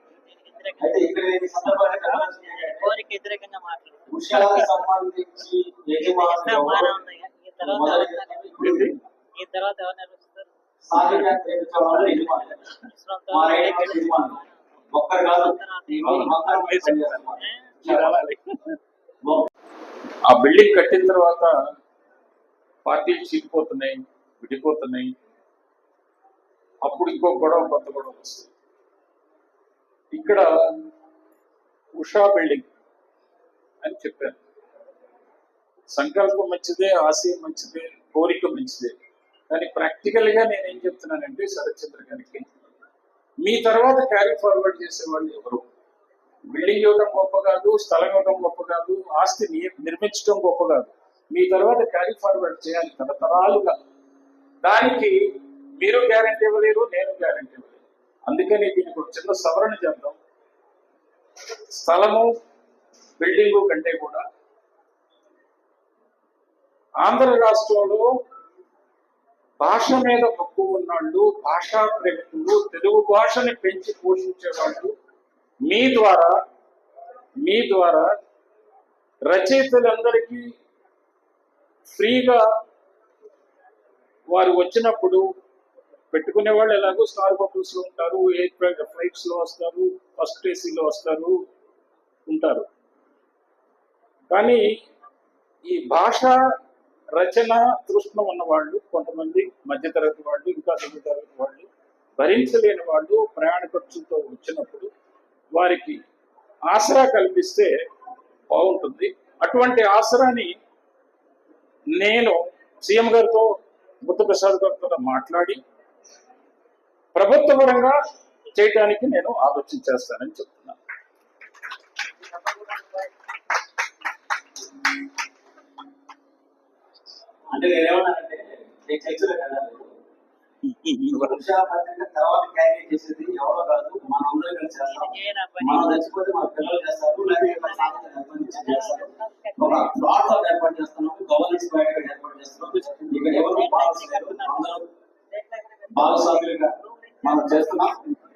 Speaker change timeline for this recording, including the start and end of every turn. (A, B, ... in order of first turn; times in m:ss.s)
0:00.2-0:04.7 A
0:00.8-0:02.9 B
0:04.1-0:07.0 B
0:06.0-0:10.5 A
0:07.6-0:09.0 B
0:08.6-0:08.9 C
0:10.8-0:12.6 B
0:13.0-0:14.5 A
0:13.3-0:14.4 B
0:14.9-0:18.1 B
0:15.2-0:17.6 A
0:16.0-0:17.2 C
0:17.8-0:18.8 C
0:20.2-0:21.5 C
0:22.8-0:25.1 C
0:26.8-0:28.5 C
0:30.1-0:30.5 C
0:32.0-0:32.7 C
0:33.8-0:34.4 C
0:35.9-0:38.9 C
0:39.5-0:42.4 C
0:43.4-0:45.6 C
0:46.5-0:53.8 C
0:54.6-0:55.2 C
0:55.8-1:00.2 C
1:01.7-1:02.3 C
1:03.2-1:04.2 C
1:07.0-1:08.0 C
1:09.6-1:14.9 C
1:15.7-1:16.3 C
1:17.4-1:18.1 C
1:19.2-1:20.4 C
1:21.9-1:22.4 C
1:24.3-1:25.2 C
1:26.1-1:31.4 C
1:32.3-1:32.7 C
1:34.3-1:34.6 C
1:35.6-1:36.4 C
1:37.2-1:41.7 C
1:42.2-1:44.9 C
1:45.5-1:46.0 C
1:46.7-1:47.7 C
1:48.5-1:50.5 C
1:51.9-1:53.5 C
1:54.0-1:55.6 C
1:57.1-1:58.0 C
1:58.5-2:00.8 C
2:07.5-2:09.9 B
2:10.6-2:11.4 C
2:11.1-2:24.9 B
2:14.9-2:16.0 A
2:17.3-2:20.0 A
2:22.9-2:28.0 A
2:25.9-2:28.0 B